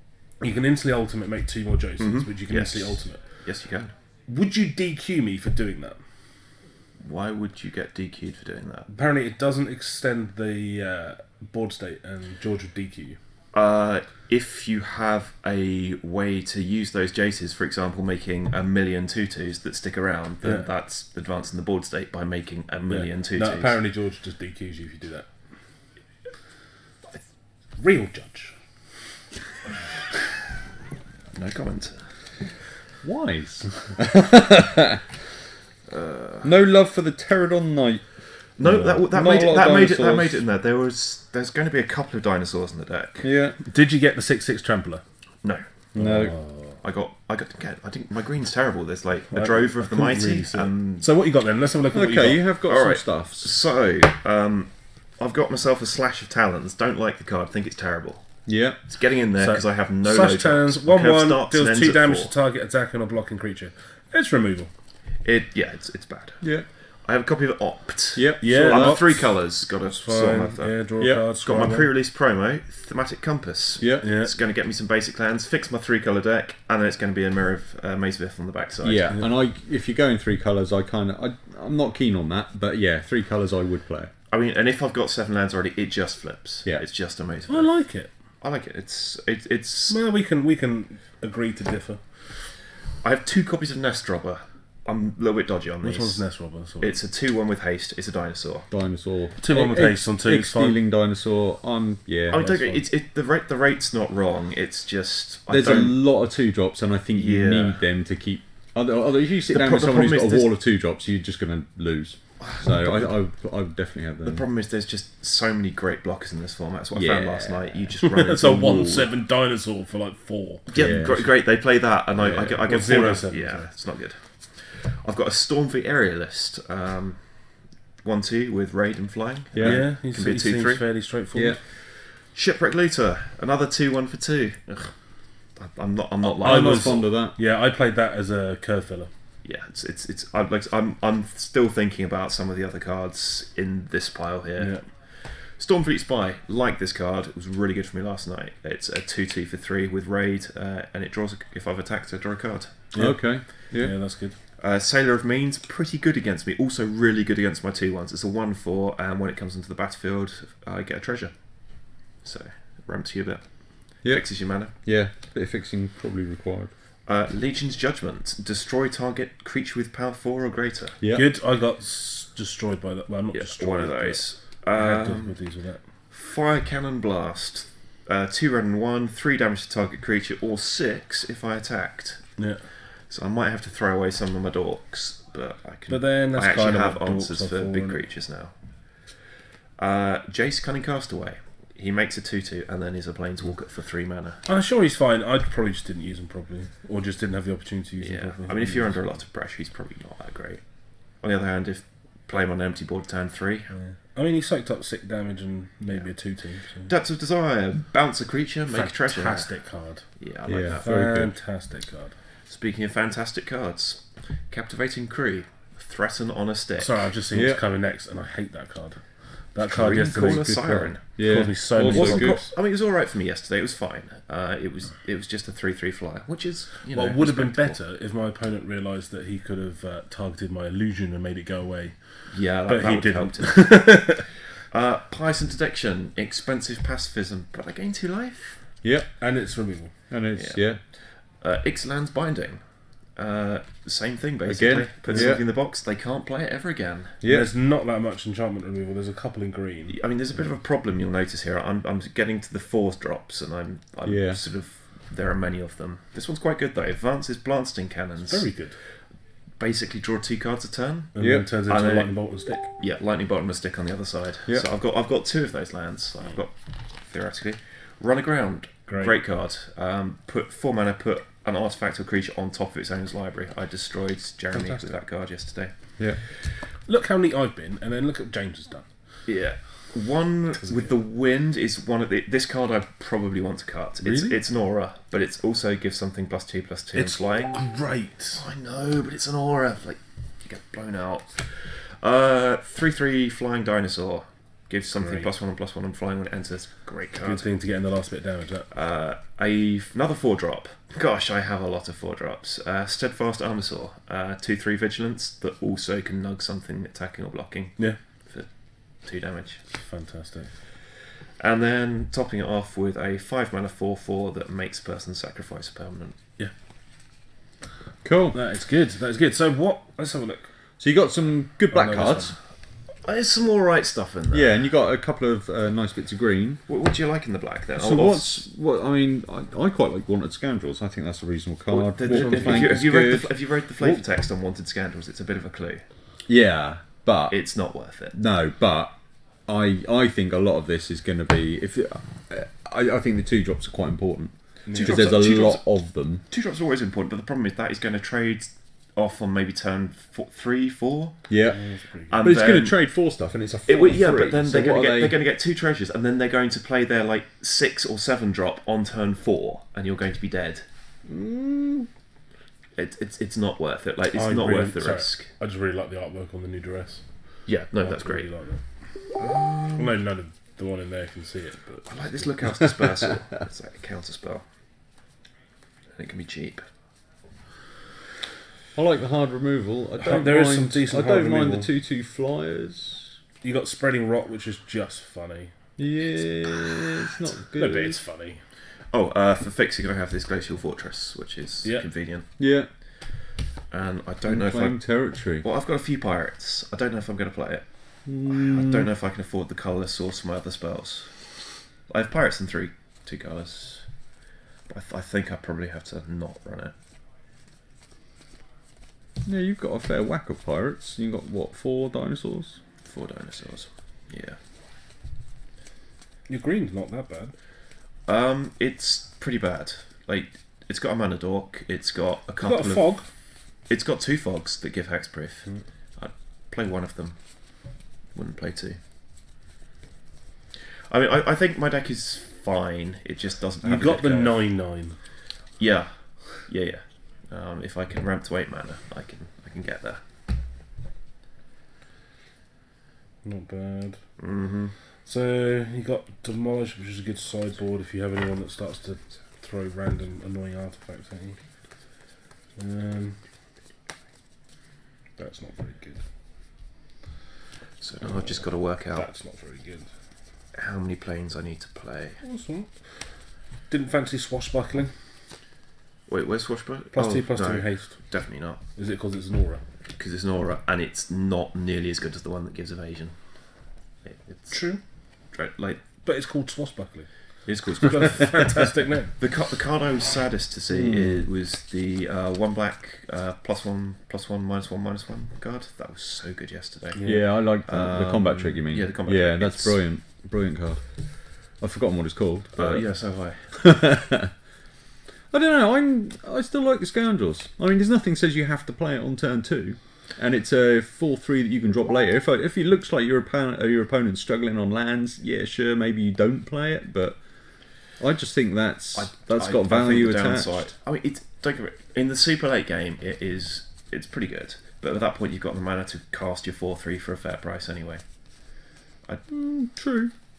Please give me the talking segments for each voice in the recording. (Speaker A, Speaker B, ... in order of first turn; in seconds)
Speaker A: 0.4-3.4, 4.3-6.0, 8.9-13.2, 20.4-20.7, 22.9-25.3, 27.8-28.6, 38.6-39.0, 43.6-45.0, 45.9-46.8, 49.3-52.5, 59.4-64.7, 68.4-71.9, 74.0-74.3, 87.5-88.1, 89.9-92.2, 95.8-97.0, 99.4-100.8, 102.4-102.8, 118.0-121.0, 122.5-123.7, 129.6-131.6, 136.4-139.1, 144.6-144.8, 152.9-154.4, 171.1-175.9, 182.4-182.7, 185.9-188.0, 194.4-199.0, 203.7-206.9, 208.7-210.2, 210.7-212.2, 216.8-222.5, 226.9-234.4, 239.2-240.1, 245.1-245.4, 247.2-250.0, 258.2-258.8, 261.1-262.7, 268.9-269.2, 274.5-275.0, 276.0-279.9, 280.6-280.9, 284.0-284.4, 286.9-288.4, 294.9-295.3, 297.2-298.7, 309.7-310.6, 318.3-320.5, 321.7-322.3, 331.9-333.0, 344.6-345.3, 351.4-352.4, 364.1-367.2, 367.7-369.1, 369.8-372.3, 380.0-381.7, 383.4-385.5, 387.5-388.4, 416.3-417.3, 422.4-423.1, 433.6-435.0, 443.2-444.0, 445.0-451.4, 452.6-453.2, 455.2-456.0, 458.0-459.9, 462.2-462.7, 463.7-464.9, 466.9-469.6, 474.5-474.8, 476.0-479.1, 486.9-487.4
Speaker B: 2.0-3.9, 7.0-8.9, 13.5-23.8, 31.3-32.1, 35.9-36.5, 38.6-43.3, 45.4-45.8, 46.8-51.1, 52.6-62.3, 65.2-79.2, 84.3-90.0, 93.0-98.7, 102.3-106.0, 107.1-107.8, 109.5-110.5, 112.4-113.2, 114.2-119.1, 120.7-130.8, 131.6-137.1, 139.4-152.9, 154.6-164.7, 167.1-171.0, 173.3-175.4, 176.1-194.4, 198.0-203.8, 205.9-206.3, 206.8-210.9, 212.5-217.1, 219.6-221.2, 221.8-227.8, 232.3-238.8, 240.3-247.2, 249.9-259.0, 259.6-276.0, 279.2-287.7, 288.4-297.5, 298.7-309.6, 311.4-316.2, 323.0-324.6, 326.7-328.4, 331.7-335.8, 337.3-338.2, 344.7-351.4, 352.1-353.1, 353.6-360.6, 362.7-365.3, 367.4-368.3, 369.1-369.9, 371.9-374.4, 375.9-376.6, 388.9-392.2, 393.7-404.0, 404.7-406.7, 412.8-414.4, 418.1-428.8, 430.9-434.5, 435.6-440.0, 444.2-444.7, 457.8-459.1, 460.5-462.2, 466.1-468.6, 470.0-475.9, 477.4-478.6, 479.2-489.8, 492.5-493.5, 508.9-519.2
Speaker C: 33.0-35.0, 36.4-38.2, 39.1-40.4, 43.2-43.6, 45.9-46.3, 51.9-53.5, 58.5-58.8, 66.4-66.7, 68.2-69.0, 71.0-71.3, 73.8-74.1, 78.8-84.1, 98.7-102.5, 105.5-114.5, 116.9-118.0, 120.7-121.4, 122.2-122.6, 129.5-129.9, 131.3-131.6, 136.2-137.3, 152.9-153.9, 164.0-166.7, 171.0-171.2, 210.4-211.3, 217.3-217.6, 221.2-222.4, 238.8-239.1, 240.1-240.8, 244.5-245.4, 247.2-247.5, 254.0-254.4, 261.2-261.5, 318.0-318.4, 320.8-322.3, 324.3-326.6, 327.8-333.4, 336.3-346.2, 351.3-351.6, 352.2-355.2, 361.1-361.9, 378.7-383.1, 385.8-388.0, 392.4-392.7, 394.2-395.4, 398.1-398.9, 409.2-412.6, 480.7-481.3, 487.0-492.9, 493.5-494.3, 495.3-510.7, 519.3-520.1